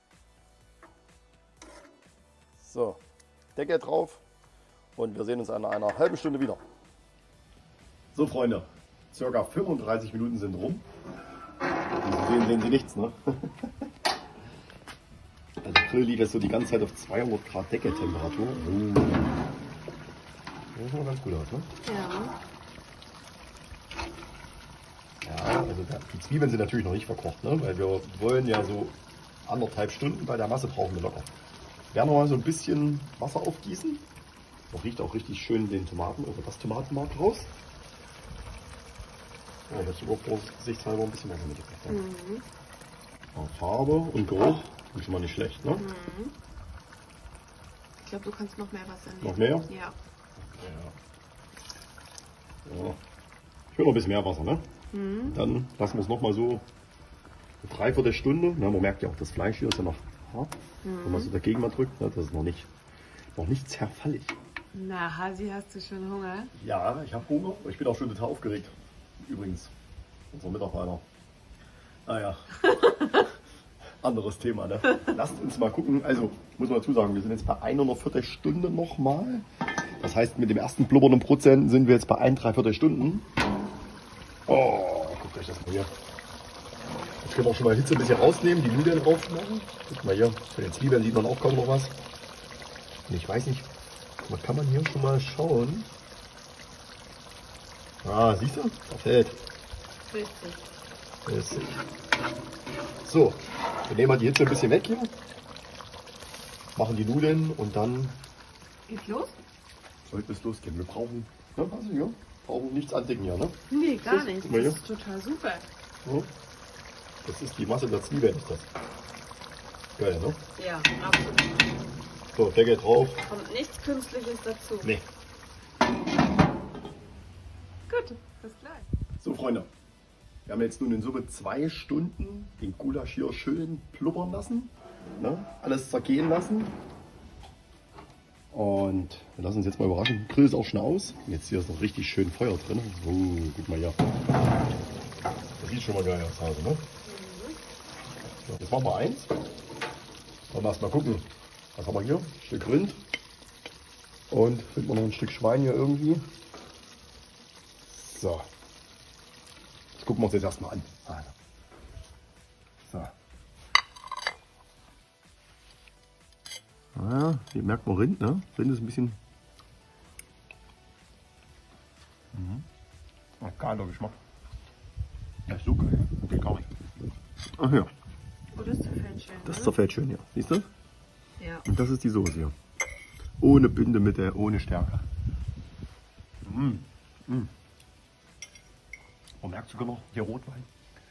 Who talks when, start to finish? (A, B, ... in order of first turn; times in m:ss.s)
0:02.6-0:03.0 A
0:03.6-0:04.2 A
0:05.0-0:06.6 A
0:08.1-0:10.8 A
0:12.0-0:13.7 A
0:15.6-0:19.3 A
0:20.7-0:21.7 A
0:21.8-0:22.3 B
0:25.2-0:28.9 A
0:29.4-0:31.3 A
0:31.9-0:34.0 A
0:34.7-0:37.5 A
0:39.7-0:42.0 A
0:41.9-0:42.4 B
0:43.3-0:45.8 A
0:45.8-0:46.4 B
0:48.0-0:50.0 B
0:49.2-0:49.7 A
0:50.4-0:51.0 A
0:52.6-0:53.0 A
0:53.7-0:54.7 A
0:54.9-0:55.4 B
0:55.2-0:56.6 A
0:57.6-1:02.7 A
1:00.8-1:01.3 B
1:03.3-1:04.4 A
1:04.7-1:06.5 B
1:06.5-1:09.7 A
1:10.3-1:11.0 A
1:12.0-1:13.3 A
1:14.0-1:19.4 A
1:20.0-1:23.3 A
1:24.5-1:25.9 A
1:27.2-1:31.9 A
1:33.1-1:33.7 A
1:34.2-1:35.9 A
1:38.0-1:39.4 A
1:40.1-1:40.6 B
1:41.2-1:41.8 A
1:43.0-1:45.1 A
1:46.7-1:48.2 A
1:48.9-1:49.4 B
1:50.1-1:54.8 A
1:53.7-1:55.7 B
1:57.2-1:58.7 A
2:00.0-2:00.4 A
2:00.6-2:01.7 B
2:02.3-2:03.2 A
2:03.2-2:05.0 B
2:07.9-2:08.9 B
2:09.2-2:09.7 A
2:10.4-2:16.8 A
2:18.5-2:24.0 A
2:25.6-2:26.8 A
2:27.0-2:27.6 B
2:28.5-2:29.3 A
2:30.5-2:33.0 A
2:34.3-2:36.3 A
2:37.9-2:38.5 A
2:40.0-2:41.3 A
2:42.8-2:43.1 A
2:46.9-2:49.2 A
2:52.3-2:52.6 A
2:53.4-2:54.2 A
2:55.5-2:56.7 A
2:57.6-2:57.9 A
2:58.5-2:59.8 B
2:59.4-3:00.7 A
3:01.4-3:01.6 B
3:01.6-3:02.5 A
3:03.4-3:05.0 A
3:06.4-3:07.5 A
3:09.4-3:10.7 A